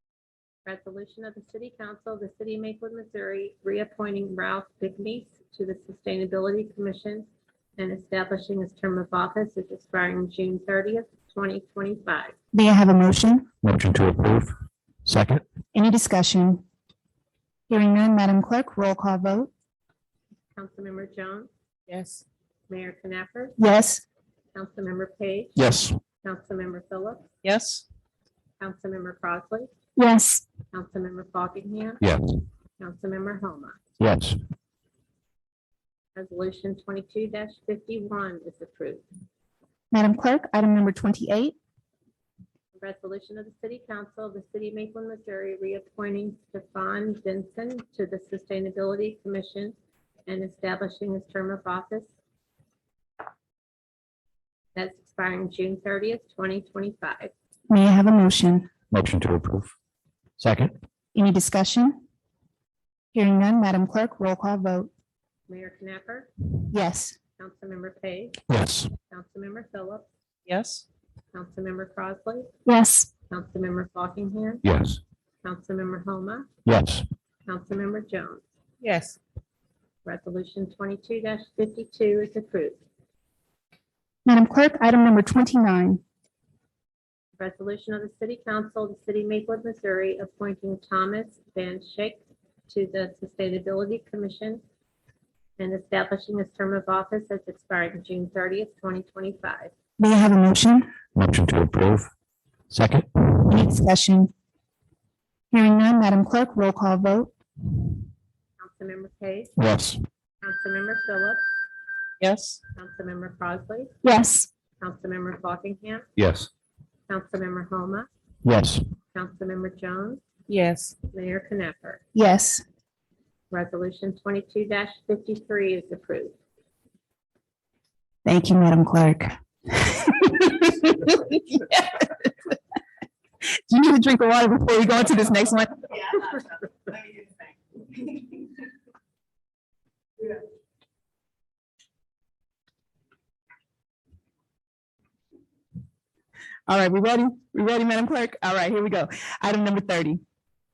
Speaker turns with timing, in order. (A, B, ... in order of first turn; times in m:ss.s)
0:00.6-0:12.3 A
0:12.5-0:13.5 B
0:13.6-0:14.5 C
0:15.0-0:15.4 C
0:15.7-0:16.6 B
0:17.7-0:19.5 B
0:20.6-0:21.5 A
0:21.9-0:22.2 D
0:22.7-0:23.6 A
0:23.6-0:24.0 B
0:24.5-0:25.6 A
0:25.6-0:26.0 C
0:26.2-0:27.3 A
0:27.4-0:27.8 D
0:28.6-0:29.7 A
0:30.0-0:30.4 B
0:30.7-0:32.0 A
0:32.0-0:32.4 C
0:32.8-0:33.8 A
0:34.0-0:34.4 C
0:36.2-0:39.0 A
0:39.9-0:41.5 B
0:42.8-0:52.1 A
0:54.7-0:57.3 A
0:57.7-0:58.7 B
0:58.9-0:59.7 C
1:00.4-1:00.7 C
1:01.1-1:02.0 B
1:03.1-1:04.9 B
1:05.5-1:06.3 A
1:06.7-1:07.2 B
1:07.4-1:08.4 A
1:08.5-1:08.9 C
1:09.1-1:10.0 A
1:10.5-1:10.8 D
1:11.3-1:12.5 A
1:12.6-1:13.1 B
1:13.3-1:14.6 A
1:14.6-1:15.0 C
1:15.4-1:16.5 A
1:16.6-1:17.0 C
1:17.5-1:18.4 A
1:18.8-1:19.2 D
1:20.0-1:22.8 A
1:24.2-1:26.0 B
1:27.4-1:34.6 A
1:35.6-1:39.7 A
1:40.0-1:40.9 B
1:41.2-1:42.1 C
1:42.7-1:43.6 C
1:43.4-1:44.3 B
1:45.5-1:47.3 B
1:48.6-1:49.5 A
1:49.6-1:50.0 C
1:50.4-1:51.4 A
1:52.2-1:52.6 D
1:52.8-1:53.9 A
1:54.0-1:54.5 B
1:54.8-1:56.1 A
1:56.2-1:56.5 C
1:57.1-1:58.1 A
1:58.4-1:58.8 C
1:59.1-2:00.2 A
2:00.5-2:01.0 D
2:01.1-2:02.0 A
2:02.1-2:02.6 B
2:03.5-2:06.3 A
2:08.2-2:11.3 B
2:13.7-2:16.2 B
2:26.7-2:30.2 B